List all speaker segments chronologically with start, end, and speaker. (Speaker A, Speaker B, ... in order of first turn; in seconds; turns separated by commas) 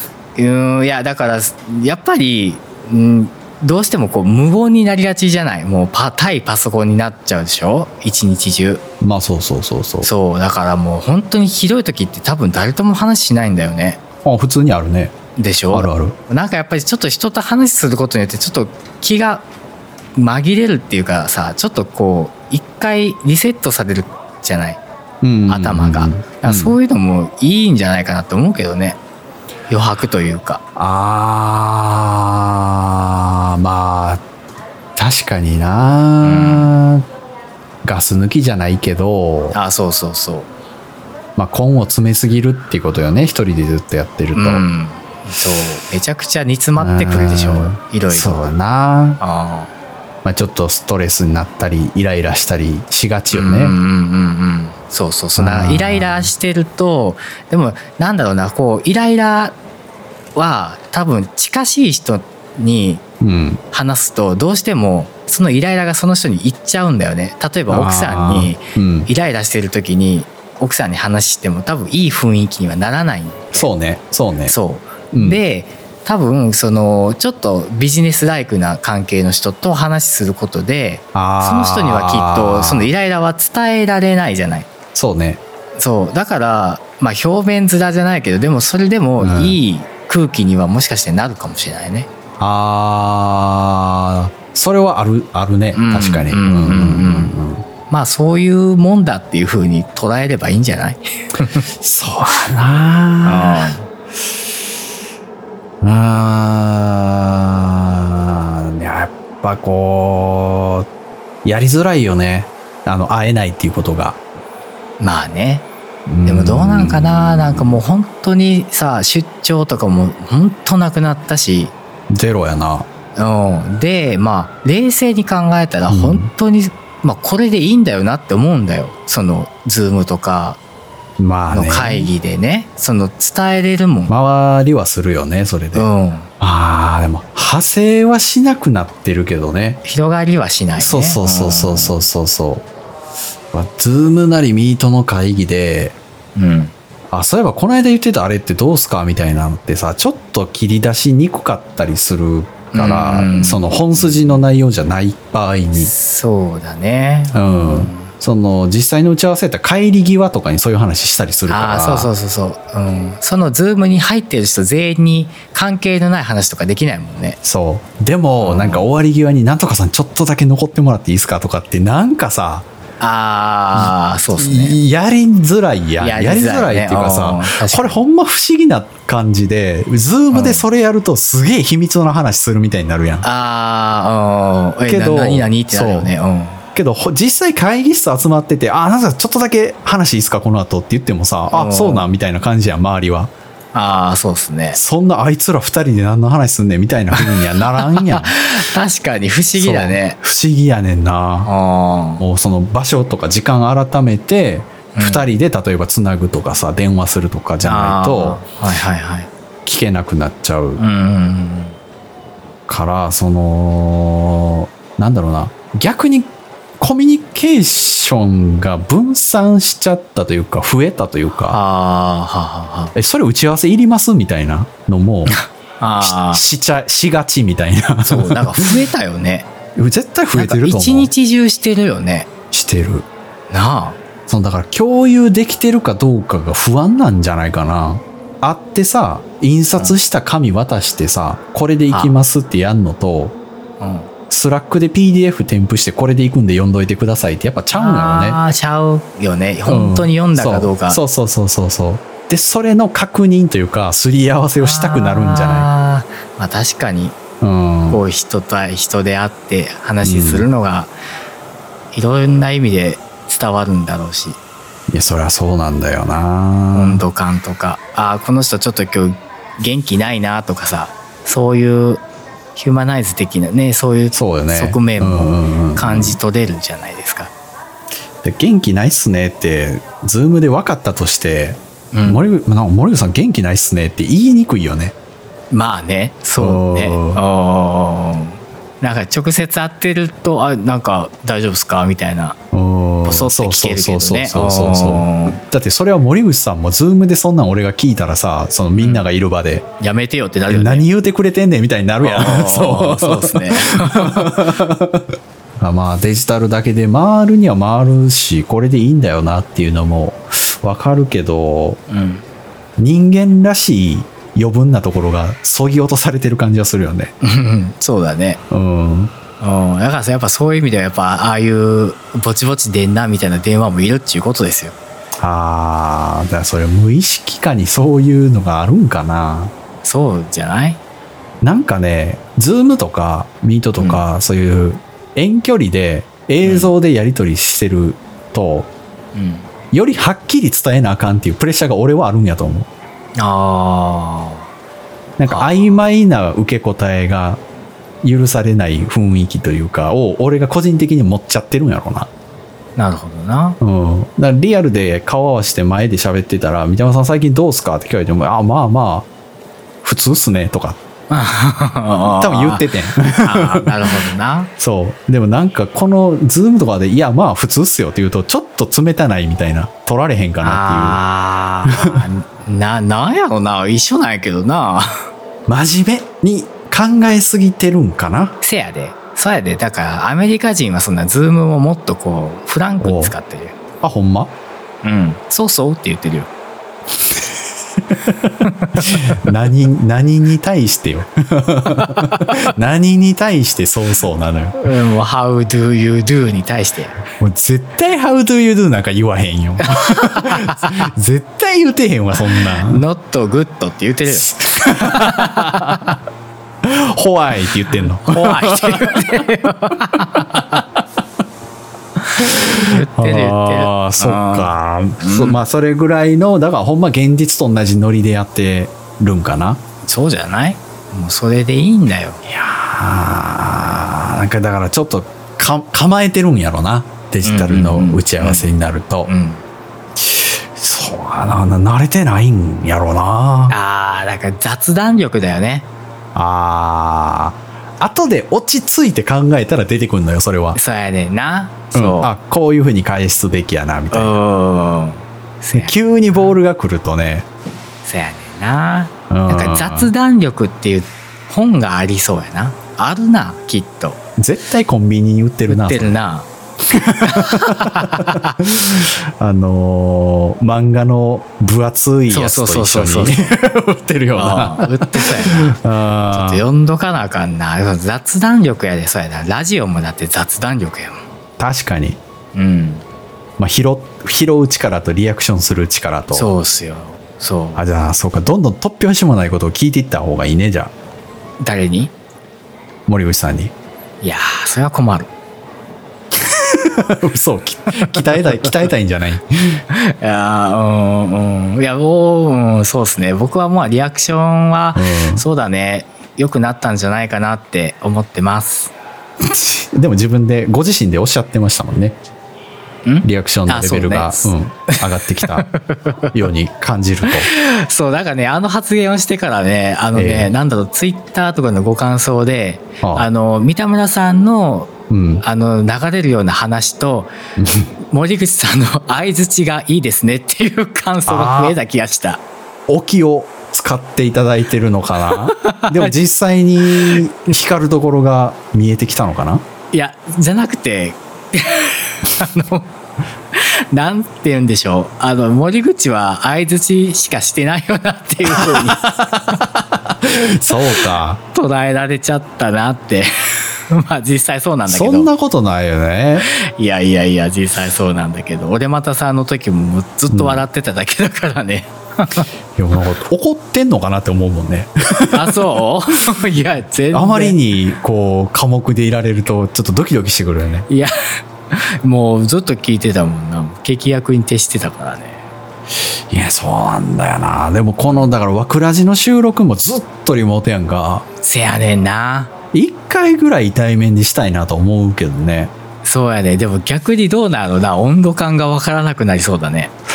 Speaker A: 0.3-8.8, Speaker B: 9.0-10.1, Speaker A: 10.0-14.0, Speaker B: 14.2-15.1, Speaker A: 15.3-19.4, Speaker B: 15.7-16.2, Speaker A: 20.1-24.8, Speaker B: 25.2-26.8, Speaker A: 25.5-29.0, Speaker A: 29.7-30.6, Speaker B: 30.8-34.2, Speaker B: 35.0-37.0, Speaker A: 36.2-36.7, Speaker B: 37.8-39.6, Speaker A: 39.5-40.5, Speaker B: 41.4-44.6, Speaker A: 44.3-48.5, Speaker B: 46.8-49.2, Speaker A: 49.2-49.7, Speaker B: 50.2-53.8, Speaker A: 53.3-59.5, Speaker B: 55.4-56.3, Speaker A: 60.3-63.0, Speaker B: 63.2-63.6, Speaker A: 63.7-73.7, Speaker B: 67.7-69.1, Speaker B: 73.5-74.5, Speaker A: 74.5-84.7, Speaker B: 75.1-75.4, Speaker B: 81.1-82.9, Speaker B: 84.9-85.4, Speaker A: 85.8-92.1, Speaker B: 89.2-89.6, Speaker B: 92.4-97.7, Speaker A: 95.7-97.3, Speaker A: 97.9-101.7, Speaker B: 101.8-103.8, Speaker A: 103.2-103.8, Speaker B: 105.8-110.9, Speaker B: 111.4-114.2, Speaker A: 115.0-115.7, Speaker B: 116.1-117.8, Speaker A: 116.2-121.7, Speaker B: 122.1-122.9, Speaker A: 123.1-130.6, Speaker B: 125.9-126.3, Speaker B: 131.2-132.1, Speaker A: 131.5-134.1, Speaker B: 134.1-135.9, Speaker A: 135.7-136.3, Speaker B: 136.4-139.8, Speaker A: 139.8-142.1, Speaker B: 140.8-142.7, Speaker B: 143.5-145.9, Speaker A: 146.3-146.7, Speaker B: 147.1-155.9, Speaker A: 152.7-154.4, Speaker A: 155.7-158.1, Speaker B: 157.3-162.1, Speaker A: 161.5-167.4, Speaker B: 167.4-172.7, Speaker A: 168.4-168.8, Speaker A: 173.0-174.8, Speaker B: 173.7-183.2, Speaker A: 176.0-178.0, Speaker A: 180.3-180.7, Speaker A: 183.2-186.6, Speaker B: 184.9-186.1, Speaker B: 186.7-193.3, Speaker A: 191.5-192.1, Speaker A: 193.7-194.8, Speaker B: 194.7-198.4, Speaker A: 197.1-200.2, Speaker B: 199.6-201.5, Speaker A: 201.4-202.2, Speaker B: 202.2-208.4, Speaker A: 204.9-205.3, Speaker A: 207.6-209.3, Speaker B: 209.7-210.8, Speaker A: 210.8-211.8, Speaker B: 212.7-221.6, Speaker A: 221.5-222.9, Speaker B: 222.9-225.4, Speaker A: 225.3-226.4, Speaker B: 226.0-228.8, Speaker A: 228.0-229.5, Speaker B: 229.7-231.1, Speaker A: 230.3-232.3, Speaker B: 232.5-233.1, Speaker A: 233.5-234.0, Speaker B: 234.3-243.3, Speaker A: 241.9-242.2, Speaker A: 243.8-244.1, Speaker B: 244.3-248.4, Speaker A: 247.7-251.0, Speaker B: 249.7-255.7, Speaker A: 254.6-257.2, Speaker B: 257.4-258.0, Speaker A: 257.9-260.9, Speaker B: 260.0-260.5, Speaker A: 261.9-264.4, Speaker B: 264.9-267.0, Speaker A: 266.7-272.0, Speaker A: 272.5-277.3, Speaker B: 274.1-276.2, Speaker B: 278.2-284.9, Speaker A: 281.9-282.2, Speaker A: 285.5-292.4, Speaker B: 286.4-287.2, Speaker B: 292.5-299.6, Speaker A: 293.0-295.4, Speaker A: 298.8-299.1, Speaker A: 299.8-300.9, Speaker B: 300.5-305.1, Speaker A: 302.0-304.4, Speaker B: 305.6-311.8, Speaker A: 311.9-312.2, Speaker B: 312.8-317.1, Speaker A: 317.2-318.4, Speaker B: 318.5-319.1, Speaker A: 319.4-324.8, Speaker B: 325.2-329.5, Speaker A: 329.8-330.8, Speaker B: 331.4-338.7, Speaker A: 333.8-334.0, Speaker A: 336.4-336.7, Speaker A: 339.1-339.5, Speaker B: 339.7-342.7, Speaker A: 343.2-344.5, Speaker B: 345.2-347.4, Speaker A: 345.3-345.6, Speaker B: 348.0-352.1, Speaker A: 352.8-353.6, Speaker B: 353.6-359.1, Speaker B: 359.8-360.8, Speaker A: 361.1-364.5, Speaker B: 362.2-364.0, Speaker B: 364.6-371.0, Speaker A: 370.4-375.1, Speaker B: 371.6-372.0, Speaker B: 375.5-378.3, Speaker A: 378.4-383.6, Speaker B: 382.8-383.1, Speaker B: 383.8-384.3, Speaker A: 384.8-386.3, Speaker B: 387.9-394.6, Speaker A: 388.4-388.9, Speaker A: 391.8-392.4, Speaker A: 394.6-397.0, Speaker B: 397.2-402.8, Speaker A: 399.6-400.8, Speaker A: 402.3-405.9, Speaker B: 404.1-405.9, Speaker B: 406.6-409.3, Speaker A: 408.1-410.6, Speaker B: 409.9-410.6, Speaker A: 412.2-415.4, Speaker B: 412.2-419.6, Speaker A: 419.8-422.2, Speaker B: 422.2-429.1, Speaker A: 427.2-428.5, Speaker A: 429.0-429.4, Speaker B: 430.0-433.6, Speaker A: 433.5-435.7, Speaker B: 436.1-440.6, Speaker A: 440.5-442.1, Speaker B: 441.7-444.2, Speaker A: 443.9-445.8, Speaker B: 445.5-447.3, Speaker A: 447.8-454.0, Speaker B: 449.1-449.9, Speaker B: 454.2-456.0, Speaker A: 455.5-456.3, Speaker B: 456.7-466.4, Speaker A: 457.0-458.4, Speaker A: 462.1-463.4, Speaker A: 464.1-465.6, Speaker A: 466.1-471.0, Speaker B: 471.4-472.0, Speaker A: 472.3-472.8, Speaker B: 473.4-476.3, Speaker A: 476.1-477.6, Speaker B: 477.6-480.7, Speaker A: 481.4-481.9, Speaker B: 482.9-483.5, Speaker A: 484.0-485.1, Speaker B: 486.1-489.6, Speaker A: 487.7-488.5, Speaker A: 489.7-498.7, Speaker B: 494.7-495.2, Speaker B: 499.3-502.0, Speaker A: 502.8-506.1, Speaker B: 503.0-505.5, Speaker B: 506.1-507.3, Speaker A: 507.1-514.7, Speaker B: 509.9-510.3, Speaker B: 512.8-513.1, Speaker B: 514.9-515.2, Speaker A: 515.2-517.1, Speaker B: 517.4-517.7, Speaker A: 517.9-522.2, Speaker B: 521.1-521.5, Speaker B: 522.7-529.4, Speaker A: 525.1-526.0, Speaker A: 529.7-532.7, Speaker A: 533.3-538.9, Speaker B: 538.2-541.2, Speaker A: 540.5-545.1, Speaker B: 544.6-546.3, Speaker A: 546.2-552.3, Speaker B: 550.1-550.4, Speaker B: 552.5-555.4, Speaker A: 555.1-557.4, Speaker B: 556.9-560.7, Speaker A: 560.7-560.9, Speaker A: 561.5-565.3, Speaker B: 566.1-571.0, Speaker A: 571.2-572.3, Speaker B: 572.5-575.5, Speaker A: 575.8-579.7